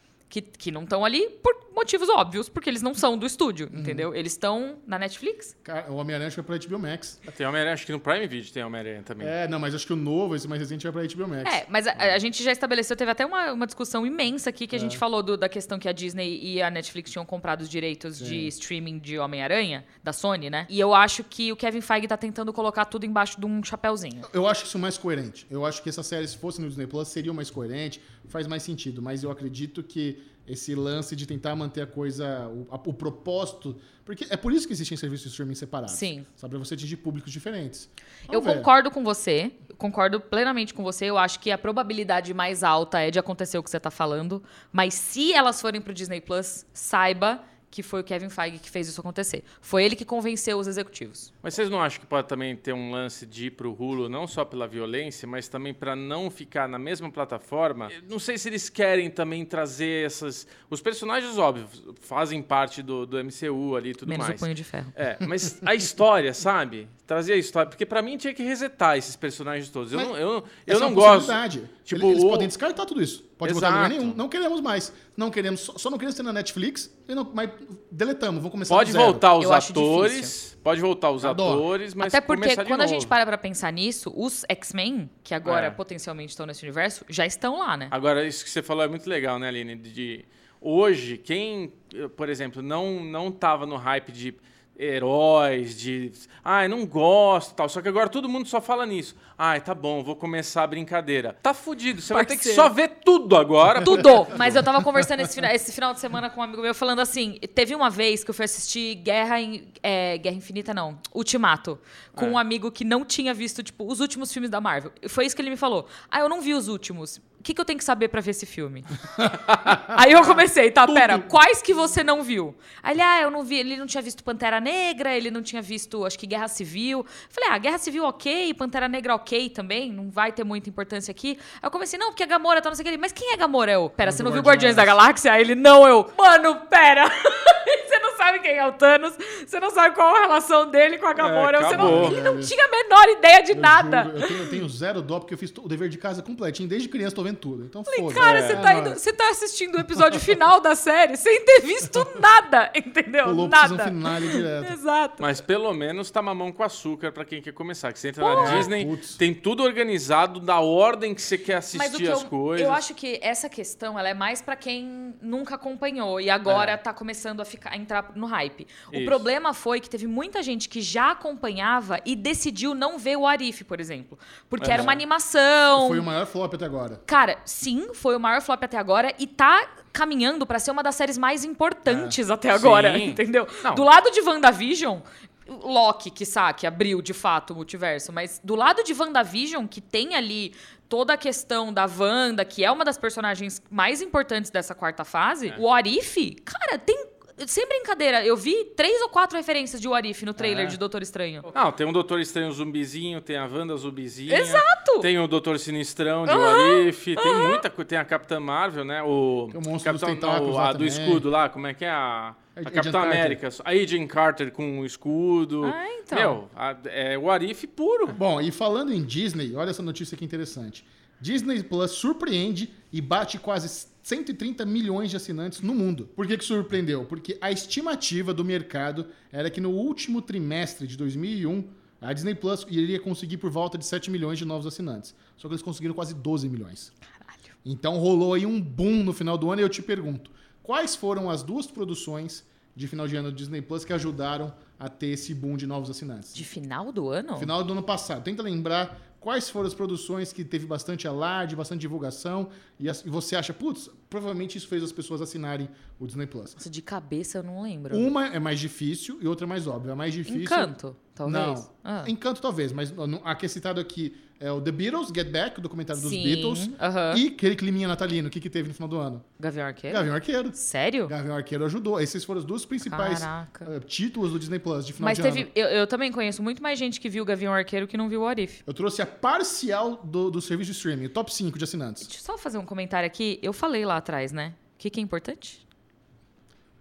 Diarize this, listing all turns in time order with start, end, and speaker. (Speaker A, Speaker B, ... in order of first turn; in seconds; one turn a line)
Speaker A: 0.3-5.5
Speaker B: 3.7-4.1
Speaker B: 5.6-7.2
Speaker C: 7.3-9.3
Speaker B: 9.2-11.6
Speaker A: 11.4-24.3
Speaker B: 14.7-15.0
Speaker B: 18.2-18.5
Speaker B: 24.2-38.7
Speaker A: 35.9-36.3
Speaker A: 38.3-51.3
Speaker C: 51.4-72.5
Speaker A: 64.0-64.9
Speaker B: 70.7-79.2
Speaker C: 73.4-74.2
Speaker C: 78.7-83.1
Speaker A: 79.4-80.3
Speaker B: 81.2-81.7
Speaker A: 82.0-87.9
Speaker C: 85.4-85.8
Speaker C: 87.9-104.5
Speaker A: 102.1-102.7
Speaker A: 103.8-119.0
Speaker B: 104.3-104.6
Speaker B: 119.2-120.2
Speaker A: 119.6-144.5
Speaker B: 120.8-121.3
Speaker B: 134.0-134.9
Speaker C: 141.2-142.2
Speaker B: 141.7-142.5
Speaker B: 143.5-149.0
Speaker A: 147.9-155.4
Speaker C: 148.2-148.7
Speaker B: 153.2-154.7
Speaker C: 155.2-162.8
Speaker A: 158.2-158.7
Speaker B: 158.3-159.2
Speaker A: 161.7-176.1
Speaker C: 166.5-166.7
Speaker C: 168.9-169.2
Speaker C: 174.6-175.0
Speaker B: 174.7-175.0
Speaker B: 175.7-177.0
Speaker A: 177.1-201.5
Speaker B: 181.8-182.2
Speaker C: 182.5-183.9
Speaker B: 200.4-200.7
Speaker C: 201.5-218.2
Speaker A: 204.3-205.1
Speaker A: 206.2-207.6
Speaker B: 209.5-211.2
Speaker B: 212.6-213.4
Speaker A: 215.6-216.4
Speaker B: 218.1-236.9
Speaker B: 237.6-246.5
Speaker A: 246.3-247.5
Speaker B: 247.4-256.6
Speaker A: 256.6-258.1
Speaker B: 257.9-260.7
Speaker A: 260.3-262.1
Speaker B: 261.2-269.3
Speaker A: 265.9-267.2
Speaker A: 269.4-271.1
Speaker B: 269.9-275.5
Speaker A: 272.8-273.7
Speaker A: 275.0-278.6
Speaker B: 278.6-282.1
Speaker A: 282.0-285.6